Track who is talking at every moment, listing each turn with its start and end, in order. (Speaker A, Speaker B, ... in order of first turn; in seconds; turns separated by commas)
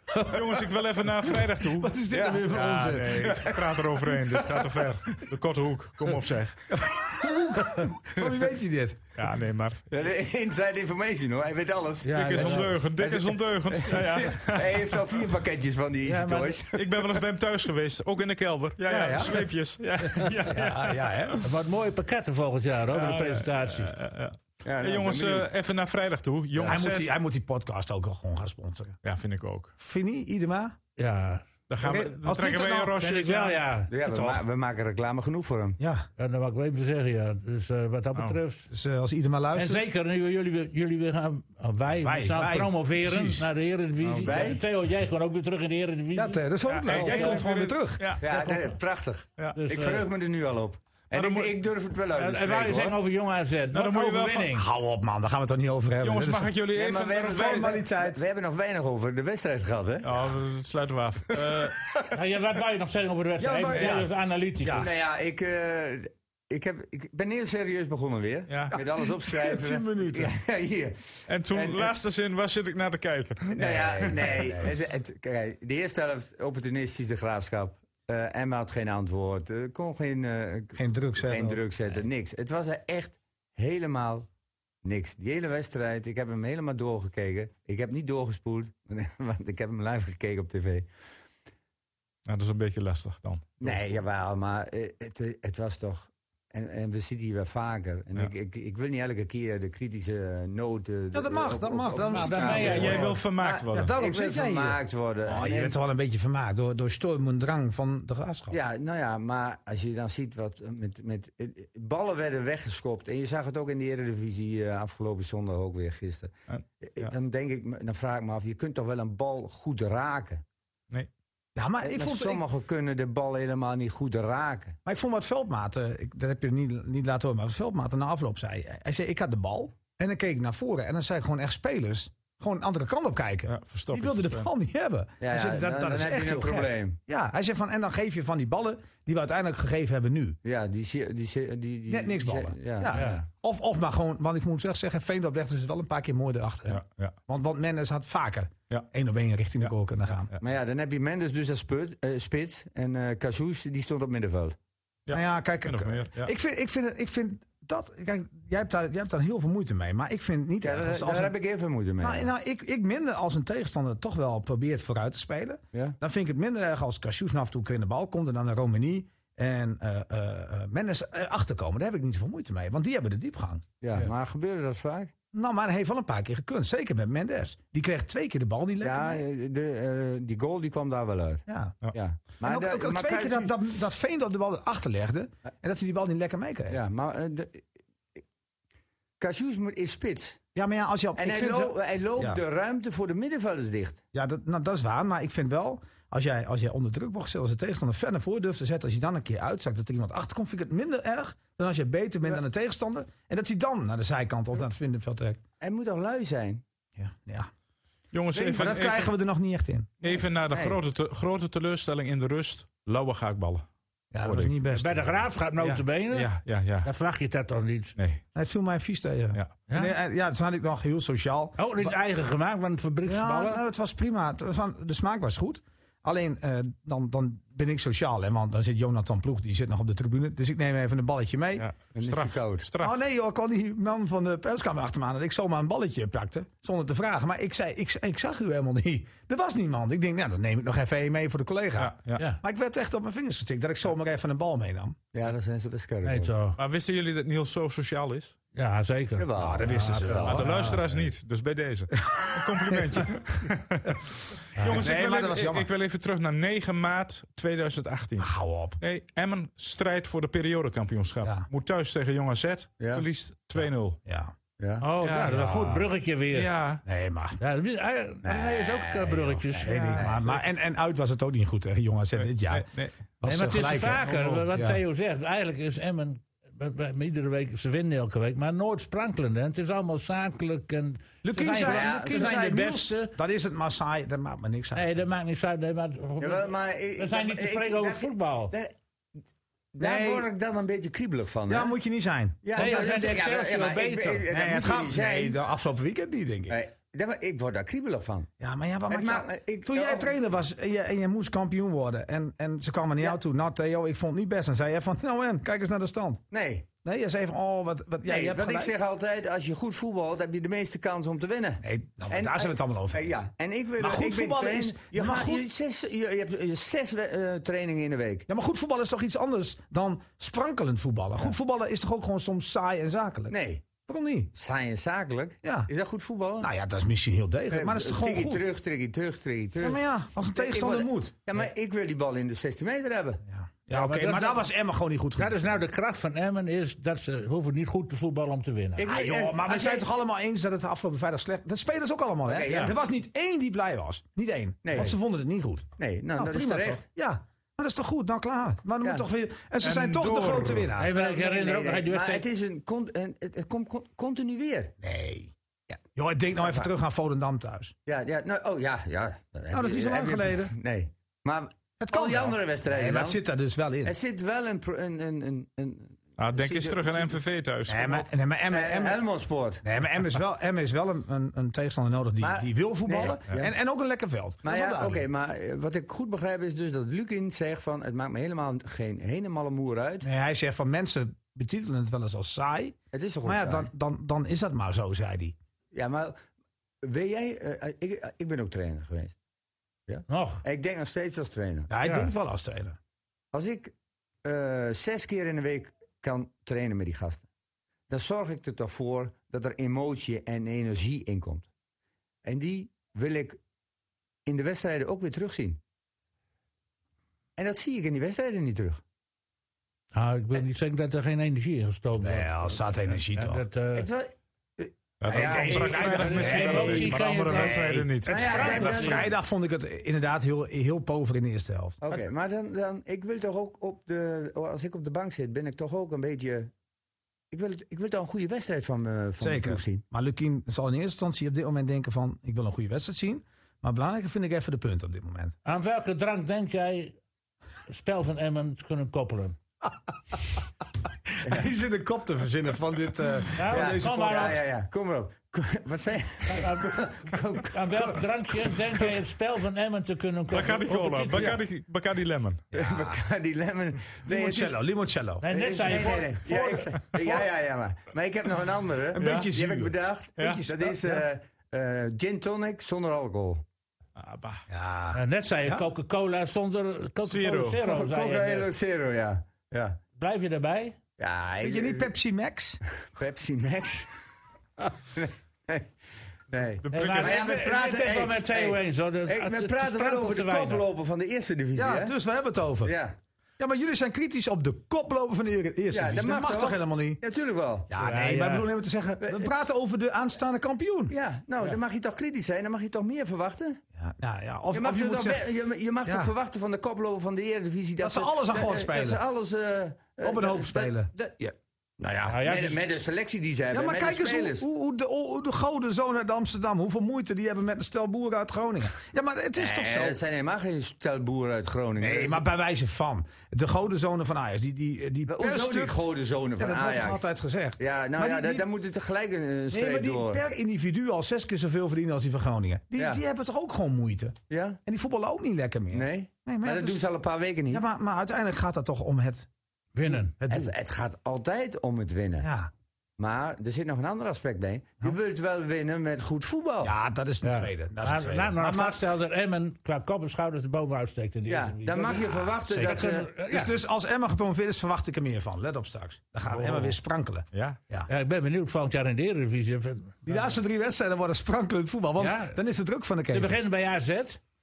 Speaker A: 0.2-2.0, Speaker B: 1.7-3.5, Speaker C: 2.1-2.6, Speaker A: 2.5-6.7, Speaker C: 3.1-4.7, Speaker B: 6.7-9.2, Speaker A: 9.2-9.8, Speaker C: 9.9-17.2, Speaker D: 12.0-12.7, Speaker A: 12.1-15.0, Speaker B: 16.1-16.4, Speaker D: 16.1-16.5, Speaker A: 16.7-21.4, Speaker B: 18.8-19.5, Speaker B: 20.5-21.5, Speaker D: 21.4-23.9, Speaker A: 22.9-27.1, Speaker C: 24.6-25.5, Speaker B: 26.6-29.0, Speaker A: 29.0-29.7, Speaker B: 29.8-30.8, Speaker D: 31.0-31.5, Speaker A: 31.7-33.6, Speaker B: 31.8-33.0, Speaker D: 33.0-33.9, Speaker C: 33.9-35.8, Speaker B: 34.0-34.4, Speaker B: 35.8-36.1, Speaker D: 36.2-38.7, Speaker B: 38.7-39.8, Speaker D: 39.5-47.4, Speaker B: 42.0-43.5, Speaker A: 44.0-44.6, Speaker C: 44.2-44.6, Speaker B: 46.1-48.1, Speaker A: 46.7-48.2, Speaker C: 48.2-53.0, Speaker D: 48.3-48.8, Speaker D: 49.5-50.1, Speaker A: 51.1-51.5, Speaker D: 52.1-54.6, Speaker A: 53.7-54.5, Speaker B: 54.5-56.5, Speaker A: 56.0-57.7, Speaker C: 56.7-60.2, Speaker B: 57.2-58.2, Speaker A: 60.0-61.8, Speaker D: 62.1-64.8, Speaker B: 63.4-64.9, Speaker A: 63.7-64.0, Speaker C: 64.8-71.0, Speaker A: 68.5-68.8, Speaker B: 68.7-70.3, Speaker A: 71.3-74.4, Speaker C: 71.5-71.9, Speaker C: 73.5-84.3, Speaker B: 73.6-74.7, Speaker B: 80.7-82.0, Speaker C: 84.8-90.9, Speaker A: 92.2-93.8, Speaker C: 93.6-105.8, Speaker B: 101.1-108.6, Speaker D: 102.0-103.1, Speaker A: 102.6-103.9, Speaker C: 108.5-120.4, Speaker A: 116.5-117.1, Speaker B: 121.5-122.4, Speaker C: 121.8-124.8, Speaker B: 124.8-140.4, Speaker A: 133.5-134.5, Speaker C: 135.2-137.0, Speaker C: 140.4-143.2, Speaker B: 141.9-150.3, Speaker D: 142.9-143.2, Speaker A: 146.7-147.2, Speaker C: 150.4-154.6, Speaker A: 155.1-156.3, Speaker B: 155.1-161.3, Speaker C: 160.6-162.3, Speaker B: 162.0-173.7, Speaker C: 173.8-175.1, Speaker B: 175.3-179.2, Speaker C: 178.8-183.5, Speaker B: 181.5-181.8, Speaker B: 182.4-186.8, Speaker C: 186.7-187.7, Speaker C: 189.2-190.4, Speaker B: 190.5-192.4, Speaker C: 191.2-194.0, Speaker B: 194.1-205.4, Speaker C: 205.6-206.6, Speaker B: 207.0-207.5, Speaker A: 208.1-209.1, Speaker B: 208.3-209.9, Speaker A: 210.0-213.6, Speaker C: 210.1-210.8, Speaker B: 214.1-215.2, Speaker A: 214.2-214.6, Speaker D: 214.7-216.3, Speaker A: 215.6-216.9, Speaker D: 216.8-217.9, Speaker A: 218.0-218.2, Speaker B: 218.3-221.9, Speaker D: 219.7-219.9, Speaker D: 221.6-223.6, Speaker B: 223.0-231.7, Speaker A: 231.6-233.0, Speaker C: 231.9-232.7, Speaker B: 232.8-245.0, Speaker A: 241.8-242.2, Speaker C: 245.1-246.3, Speaker D: 246.0-246.6, Speaker A: 246.6-248.3, Speaker D: 248.5-250.7, Speaker C: 249.2-250.6, Speaker B: 249.3-251.0, Speaker A: 250.2-264.0, Speaker B: 252.1-253.1, Speaker B: 254.6-255.7, Speaker B: 258.2-258.8, Speaker B: 261.2-261.5, Speaker C: 262.8-263.0, Speaker B: 263.6-264.3, Speaker C: 264.6-264.9, Speaker D: 264.8-266.5, Speaker A: 265.0-265.3, Speaker B: 265.2-265.9, Speaker A: 266.3-266.8, Speaker B: 266.8-267.4, Speaker D: 267.4-270.1, Speaker C: 268.2-270.2, Speaker B: 269.6-272.7, Speaker A: 272.2-272.9, Speaker B: 273.2-274.8, Speaker D: 273.2-283.1, Speaker A: 274.0-274.4, Speaker B: 281.2-285.1, Speaker C: 281.6-282.4, Speaker D: 284.7-288.5, Speaker C: 286.2-288.7, Speaker C: 289.7-291.7, Speaker B: 289.8-290.3, Speaker B: 291.5-292.8, Speaker C: 292.4-295.4, Speaker D: 292.5-294.2, Speaker B: 294.3-296.6, Speaker C: 296.5-298.3, Speaker B: 298.4-306.2, Speaker C: 298.9-300.1, Speaker C: 306.3-306.7, Speaker B: 306.8-308.7, Speaker C: 308.0-318.3, Speaker B: 311.6-313.2, Speaker B: 313.8-315.5, Speaker B: 318.3-323.3, Speaker C: 323.3-323.6, Speaker B: 323.9-324.3, Speaker C: 324.3-326.5, Speaker B: 325.4-325.7, Speaker B: 326.4-328.4, Speaker C: 327.5-329.8, Speaker B: 329.6-331.2, Speaker C: 330.4-333.2, Speaker B: 333.3-335.6, Speaker D: 333.7-334.5, Speaker D: 335.2-338.9, Speaker C: 338.8-339.8, Speaker B: 338.8-350.9, Speaker C: 342.3-342.8, Speaker D: 342.5-342.7, Speaker C: 344.6-344.9, Speaker C: 345.8-346.8, Speaker A: 349.6-350.7, Speaker D: 350.8-352.2, Speaker C: 350.9-354.7, Speaker B: 354.8-355.3, Speaker B: 355.9-357.7, Speaker C: 356.4-356.7, Speaker C: 357.9-363.2, Speaker B: 359.5-360.5, Speaker B: 361.8-363.9, Speaker C: 363.8-367.2, Speaker A: 366.2-368.1, Speaker B: 367.7-369.0, Speaker C: 368.5-369.6, Speaker B: 369.6-375.1, Speaker C: 372.2-373.5, Speaker C: 374.4-380.1, Speaker B: 380.0-385.4, Speaker C: 382.9-383.7, Speaker C: 385.7-386.2, Speaker C: 386.8-389.2, Speaker C: 389.9-391.7, Speaker D: 390.1-390.4, Speaker B: 391.7-392.8, Speaker D: 391.8-392.1, Speaker C: 393.3-397.3, Speaker C: 397.9-401.5, Speaker C: 402.2-403.4, Speaker C: 404.2-405.6, Speaker C: 407.4-408.8, Speaker D: 409.9-413.9, Speaker B: 412.0-413.4, Speaker C: 413.7-416.8, Speaker A: 415.0-418.5, Speaker B: 415.1-421.8, Speaker D: 416.0-419.0, Speaker C: 418.0-419.1, Speaker C: 421.8-426.5, Speaker C: 427.3-429.8, Speaker B: 429.2-435.4, Speaker D: 435.4-436.9, Speaker D: 437.7-439.4, Speaker B: 441.1-444.4, Speaker D: 443.4-444.4, Speaker C: 443.5-447.1, Speaker D: 446.3-451.3, Speaker A: 450.3-452.4, Speaker C: 451.1-451.4, Speaker B: 452.5-453.0, Speaker C: 452.5-454.6, Speaker B: 454.1-455.2, Speaker D: 455.2-456.7, Speaker C: 455.3-463.4, Speaker B: 458.9-461.1, Speaker A: 459.0-459.3, Speaker A: 460.2-460.4, Speaker A: 463.9-464.4, Speaker B: 464.5-465.6, Speaker D: 464.9-468.5, Speaker A: 467.0-467.6, Speaker C: 467.6-469.8, Speaker D: 470.0-470.8, Speaker C: 471.0-471.9, Speaker B: 471.4-472.6, Speaker C: 472.9-473.9, Speaker C: 474.9-475.7, Speaker C: 476.3-481.9, Speaker A: 476.6-477.2, Speaker D: 476.7-480.6, Speaker B: 481.6-482.7, Speaker C: 482.6-482.9, Speaker B: 483.4-487.0, Speaker C: 485.7-487.7, Speaker B: 487.7-490.9, Speaker D: 487.8-488.5, Speaker C: 489.0-489.3, Speaker C: 490.9-493.6, Speaker B: 493.7-495.2, Speaker C: 494.5-504.4, Speaker B: 495.8-496.1, Speaker B: 497.8-499.0, Speaker B: 500.0-500.9, Speaker D: 502.1-502.6, Speaker B: 503.5-510.0, Speaker C: 509.4-512.2, Speaker B: 511.8-515.8, Speaker C: 515.1-517.0, Speaker B: 516.4-518.4, Speaker C: 517.6-520.2, Speaker B: 519.5-526.8, Speaker C: 522.8-523.0, Speaker C: 524.3-524.6, Speaker C: 525.7-527.6, Speaker B: 527.5-529.3, Speaker D: 529.7-530.1, Speaker B: 529.9-530.5, Speaker C: 530.3-532.3, Speaker B: 532.2-532.5, Speaker C: 533.0-536.7, Speaker B: 536.6-538.8, Speaker D: 537.2-543.5, Speaker C: 541.3-543.1, Speaker B: 542.5-547.9, Speaker A: 546.4-546.7, Speaker A: 547.3-547.6, Speaker D: 547.9-550.2, Speaker B: 550.0-553.4, Speaker D: 552.0-552.4, Speaker D: 553.1-554.2